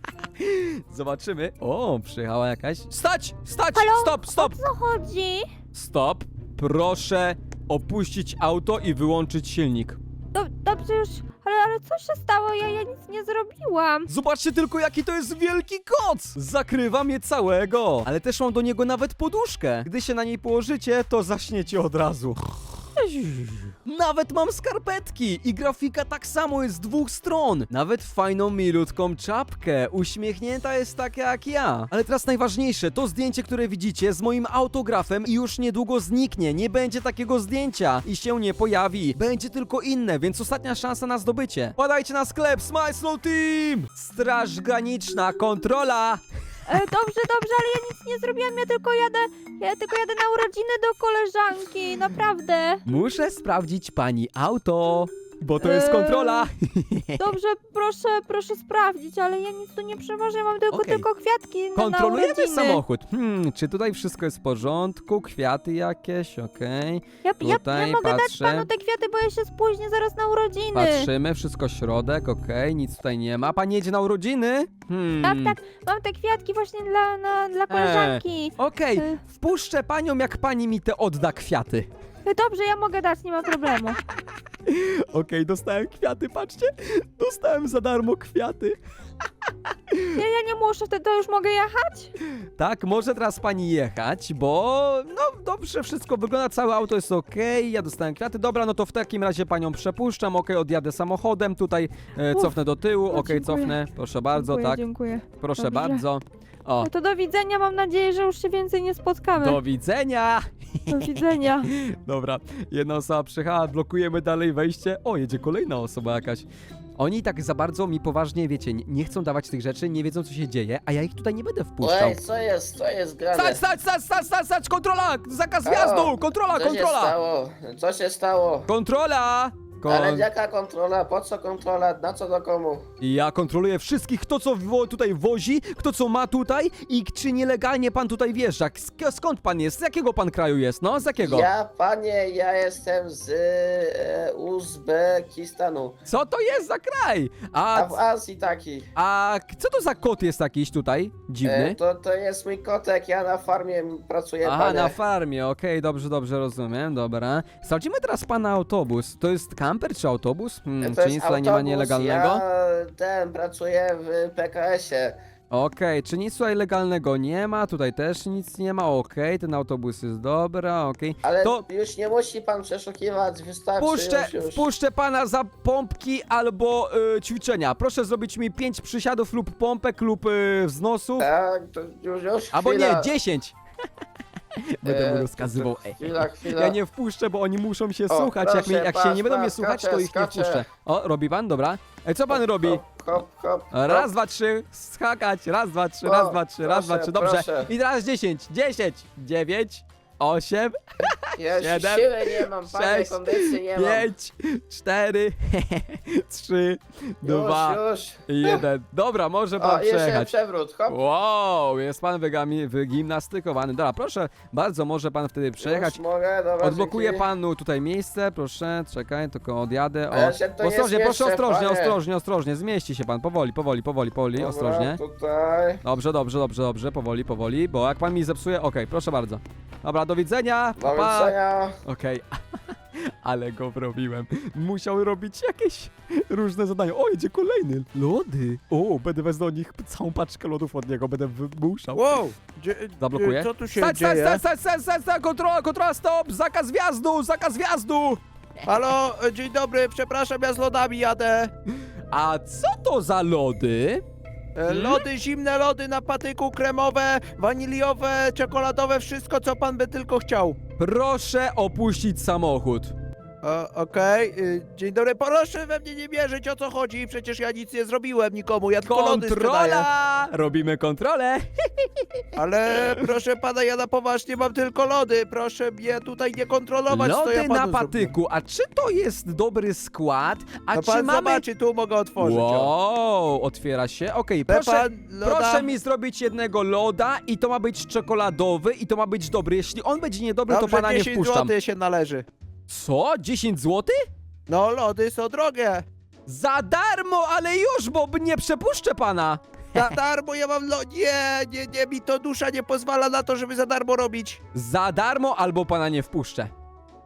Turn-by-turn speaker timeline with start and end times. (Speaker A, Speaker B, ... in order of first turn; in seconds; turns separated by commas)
Speaker A: 0.4-4.6, Speaker B: 3.8-5.5, Speaker A: 5.7-10.0, Speaker B: 10.3-14.1, Speaker A: 14.1-22.4, Speaker A: 23.0-46.2, Speaker B: 46.7-52.8, Speaker A: 52.9-57.2, Speaker B: 55.6-56.5, Speaker B: 57.2-62.8, Speaker A: 60.7-61.1, Speaker A: 61.8-68.7, Speaker B: 67.2-71.1, Speaker A: 70.7-75.5, Speaker B: 75.2-79.2, Speaker A: 77.7-81.9, Speaker B: 82.3-84.0, Speaker A: 84.7-88.8, Speaker B: 90.1-92.1, Speaker A: 92.6-106.9, Speaker B: 102.3-102.6, Speaker B: 103.1-103.8, Speaker B: 104.3-106.0, Speaker B: 106.8-109.6, Speaker A: 109.3-111.1, Speaker B: 110.9-111.7, Speaker A: 111.7-116.5, Speaker A: 117.0-122.2, Speaker C: 121.8-123.6, Speaker A: 123.3-127.2, Speaker C: 125.7-128.7, Speaker A: 128.7-130.3, Speaker C: 129.9-132.8, Speaker A: 133.0-141.5, Speaker C: 141.2-145.9, Speaker A: 146.1-148.0, Speaker C: 147.7-148.9, Speaker A: 149.0-151.8, Speaker C: 151.4-155.0, Speaker A: 154.4-162.4, Speaker C: 160.8-165.2, Speaker A: 165.5-171.7, Speaker C: 171.2-174.7, Speaker A: 173.8-181.3, Speaker C: 181.2-183.1, Speaker A: 182.5-183.6, Speaker A: 184.6-192.8, Speaker C: 184.8-186.8, Speaker C: 188.1-190.7, Speaker C: 192.3-194.1, Speaker A: 193.7-210.3, Speaker C: 196.0-197.7, Speaker C: 201.4-204.1, Speaker C: 207.2-208.6, Speaker C: 209.6-211.0, Speaker A: 210.9-216.0, Speaker C: 215.6-217.3, Speaker A: 216.6-225.0, Speaker C: 220.1-222.0, Speaker C: 224.4-225.8, Speaker A: 225.8-242.2, Speaker C: 230.8-231.8, Speaker D: 241.9-244.4, Speaker A: 243.0-248.2, Speaker D: 248.7-251.5, Speaker A: 252.1-254.0, Speaker D: 254.6-260.6, Speaker A: 254.7-255.0, Speaker A: 260.8-262.9, Speaker D: 263.4-269.9, Speaker A: 268.9-272.3, Speaker D: 272.4-278.1, Speaker A: 276.9-281.4, Speaker D: 280.7-282.7, Speaker A: 282.2-291.5, Speaker D: 284.5-285.7, Speaker D: 290.5-292.3, Speaker A: 292.7-294.0, Speaker D: 294.5-295.9, Speaker A: 296.3-299.4, Speaker D: 299.7-304.4, Speaker A: 304.5-306.5